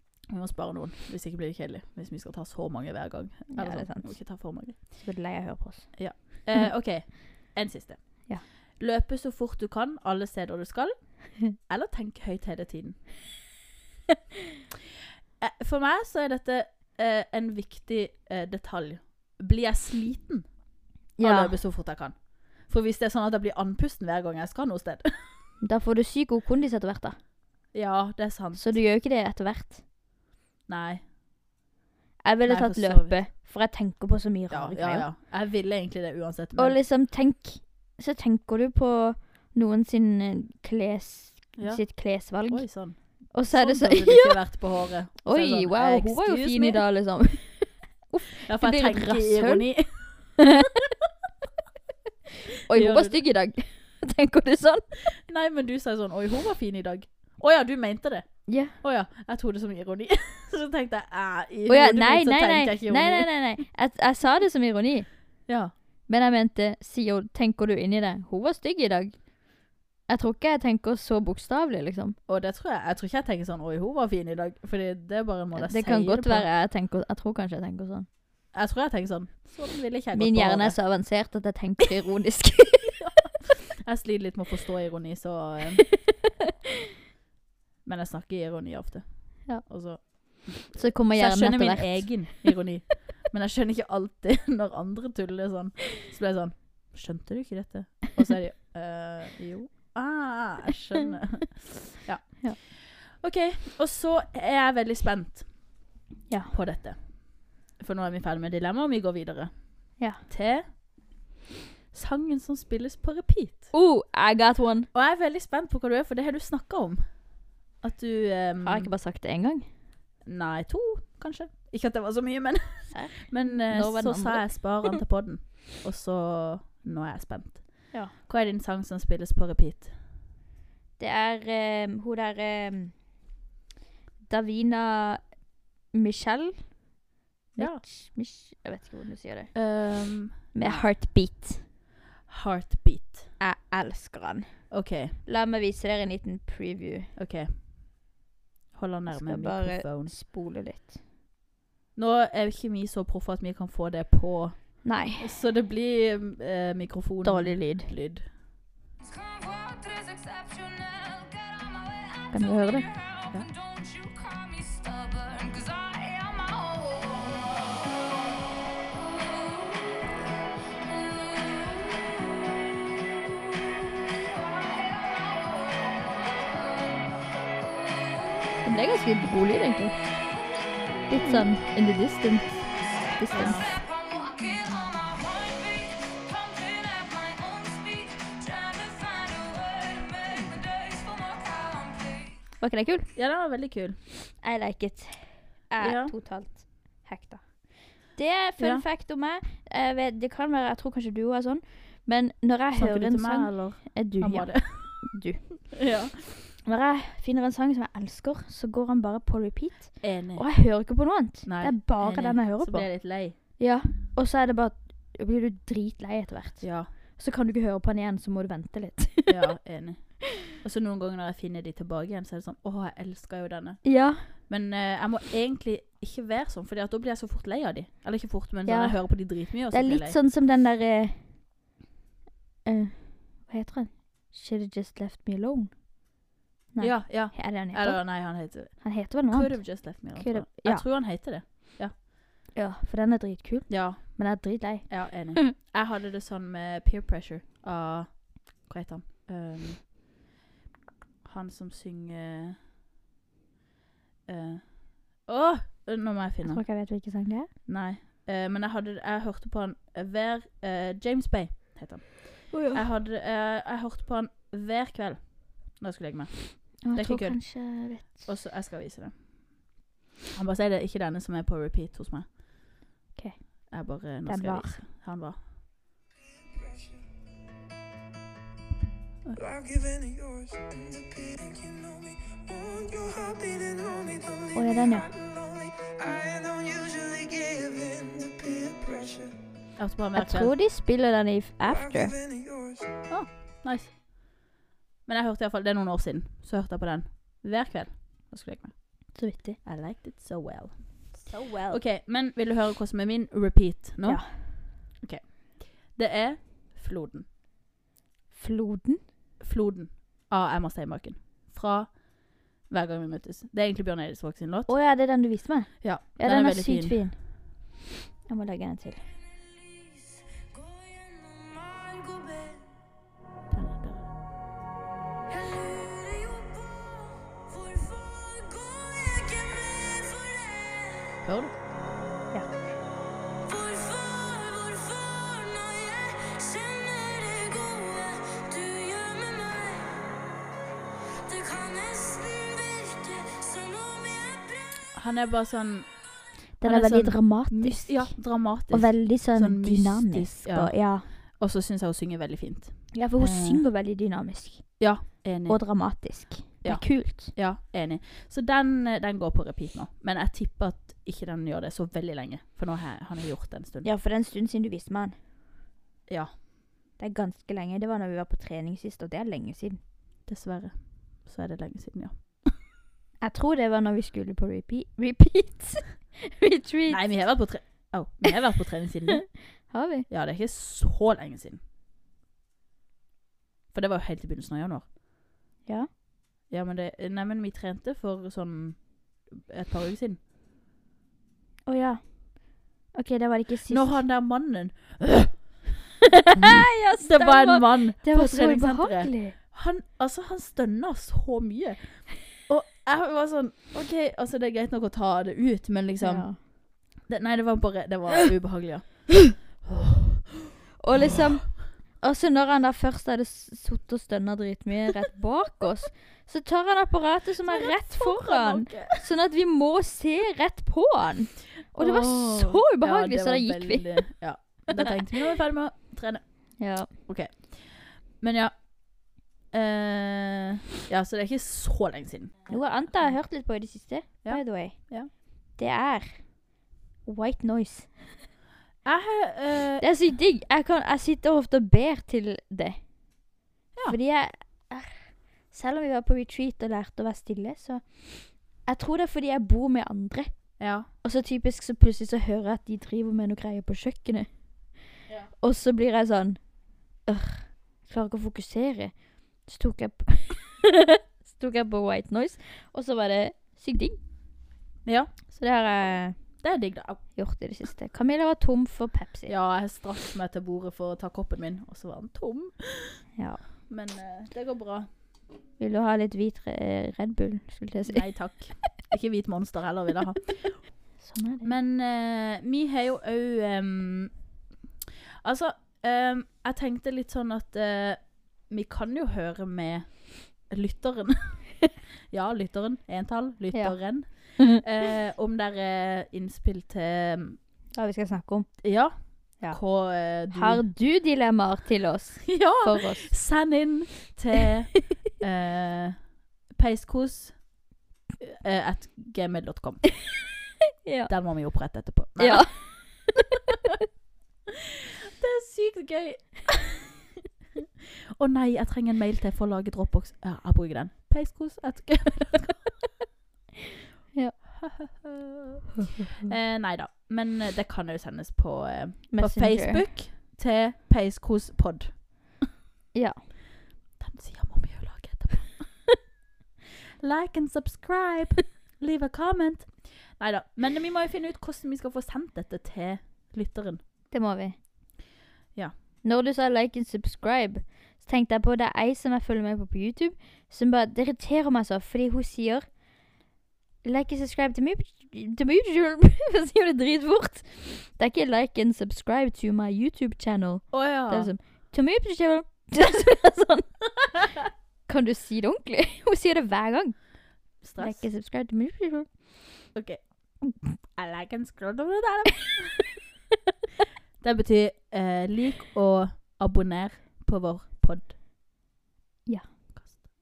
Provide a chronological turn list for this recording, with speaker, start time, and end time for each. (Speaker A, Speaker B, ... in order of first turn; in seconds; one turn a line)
Speaker A: 0.3-5.0
Speaker B: 3.5-6.6
Speaker A: 5.9-13.1
Speaker A: 15.4-25.4
Speaker B: 21.2-21.6
Speaker B: 25.6-27.2
Speaker A: 27.7-28.8
Speaker B: 28.5-29.8
Speaker A: 30.7-31.0
Speaker B: 32.2-35.1
Speaker A: 32.4-33.2
Speaker A: 34.5-36.8
Speaker B: 36.6-44.6
Speaker A: 41.5-46.8
Speaker B: 45.2-50.4
Speaker A: 48.4-50.4
Speaker B: 52.7-54.9
Speaker A: 52.7-53.2
Speaker A: 55.2-63.3
Speaker B: 58.5-58.7
Speaker B: 61.7-65.1
Speaker A: 65.5-65.7
Speaker B: 66.1-69.3
Speaker B: 70.1-72.2
Speaker A: 72.3-76.5
Speaker B: 75.5-78.1
Speaker A: 78.5-80.8
Speaker B: 80.1-83.0
Speaker A: 83.8-85.9
Speaker A: 87.8-105.8
Speaker B: 90.7-92.5
Speaker B: 106.3-106.5
Speaker A: 106.5-110.8
Speaker A: 111.9-113.7
Speaker B: 113.7-114.9
Speaker A: 114.9-117.3
Speaker A: 117.8-118.9
Speaker B: 118.6-119.7
Speaker A: 120.2-129.9
Speaker B: 122.9-125.0
Speaker B: 131.0-132.9
Speaker B: 134.2-135.3
Speaker B: 135.9-136.7
Speaker B: 137.5-139.6
Speaker A: 137.6-137.8
Speaker A: 139.5-140.9
Speaker B: 140.5-141.6
Speaker A: 142.3-143.3
Speaker B: 143.4-147.1
Speaker A: 144.7-145.2
Speaker A: 147.2-147.5
Speaker A: 148.7-150.2
Speaker B: 149.1-150.9
Speaker A: 151.9-158.3
Speaker B: 154.8-155.3
Speaker B: 157.2-157.9
Speaker C: 159.0-168.3
Speaker B: 162.3-162.9
Speaker C: 169.0-169.6
Speaker C: 170.8-171.8
Speaker C: 174.2-176.9
Speaker B: 178.6-179.9
Speaker B: 181.1-183.6
Speaker A: 183.3-183.7
Speaker C: 183.4-192.4
Speaker B: 192.6-193.1
Speaker A: 193.1-194.0
Speaker B: 194.4-205.7
Speaker A: 195.8-196.1
Speaker A: 198.6-198.8
Speaker A: 202.7-205.2
Speaker A: 205.8-206.1
Speaker B: 206.6-219.5
Speaker A: 210.0-213.3
Speaker A: 216.6-216.9
Speaker A: 219.3-230.2
Speaker B: 223.8-224.3
Speaker B: 228.7-231.3
Speaker B: 232.6-235.7
Speaker B: 236.7-240.8
Speaker A: 236.8-241.9
Speaker B: 242.5-245.4
Speaker A: 243.7-249.9
Speaker A: 251.2-252.6
Speaker A: 254.3-256.6
Speaker B: 256.4-257.5
Speaker A: 257.6-269.7
Speaker B: 262.5-262.8
Speaker B: 266.8-268.3
Speaker A: 270.3-272.3
Speaker B: 273.1-273.7
Speaker A: 273.7-275.4
Speaker B: 274.2-274.8
Speaker A: 279.2-279.6
Speaker B: 284.5-285.1
Speaker C: 287.6-289.1
Speaker A: 289.8-290.5
Speaker B: 290.1-292.1
Speaker A: 293.1-294.3
Speaker A: 295.1-307.3
Speaker B: 299.1-299.6
Speaker B: 301.2-301.8
Speaker B: 304.0-304.3
Speaker B: 308.3-309.0
Speaker A: 309.4-314.7
Speaker B: 314.7-317.3
Speaker A: 315.8-317.0
Speaker B: 318.3-319.0
Speaker C: 319.4-322.8
Speaker A: 323.5-324.1
Speaker C: 325.3-331.2
Speaker A: 331.2-331.6
Speaker C: 333.4-340.1
Speaker C: 341.2-344.8
Speaker A: 344.9-353.6
Speaker B: 346.6-351.1
Speaker B: 352.9-357.3
Speaker A: 354.8-356.1
Speaker A: 356.6-363.9
Speaker B: 363.8-365.1
Speaker A: 366.1-366.3
Speaker B: 367.0-369.8
Speaker A: 370.3-372.5
Speaker B: 373.2-377.3
Speaker A: 376.9-379.6
Speaker B: 379.6-380.1
Speaker A: 380.1-381.6
Speaker A: 383.7-384.9
Speaker A: 386.5-390.2
Speaker B: 391.6-394.0
Speaker A: 393.7-395.5
Speaker B: 396.4-399.4
Speaker A: 396.5-409.8
Speaker B: 406.0-406.4
Speaker B: 410.8-424.1
Speaker A: 417.4-419.1
Speaker A: 421.8-433.1
Speaker B: 424.8-425.1
Speaker B: 426.6-426.9
Speaker B: 432.5-436.4
Speaker A: 434.2-435.1
Speaker B: 437.0-437.9
Speaker A: 438.8-439.9
Speaker B: 439.8-442.8
Speaker B: 443.9-454.3
Speaker A: 450.6-450.9
Speaker B: 455.4-464.0
Speaker A: 464.8-465.1
Speaker B: 465.3-466.4
Speaker A: 466.4-467.0
Speaker B: 467.1-469.3
Speaker A: 469.3-473.0
Speaker B: 473.1-473.4
Speaker A: 473.7-474.9
Speaker B: 475.6-478.4
Speaker A: 477.9-480.8
Speaker B: 481.0-481.5
Speaker A: 481.4-484.2
Speaker A: 485.2-497.4
Speaker B: 493.5-494.4
Speaker B: 497.7-498.7
Speaker A: 498.6-500.6
Speaker B: 499.4-503.1
Speaker A: 502.3-507.5
Speaker A: 508.2-510.0
Speaker B: 510.8-511.1
Speaker A: 511.1-512.8
Speaker B: 512.2-513.1
Speaker A: 515.2-517.0
Speaker A: 518.2-522.7
Speaker B: 524.1-524.4
Speaker A: 524.6-532.1
Speaker B: 529.1-529.9
Speaker B: 532.9-533.2
Speaker A: 534.0-536.0
Speaker A: 537.0-543.8
Speaker B: 544.1-544.5
Speaker B: 546.0-552.7
Speaker B: 553.8-564.1
Speaker A: 560.7-561.3
Speaker B: 564.9-569.7
Speaker A: 567.6-568.1
Speaker A: 569.7-570.4
Speaker A: 570.9-572.9
Speaker A: 574.2-578.1
Speaker B: 579.2-579.7
Speaker A: 579.7-580.1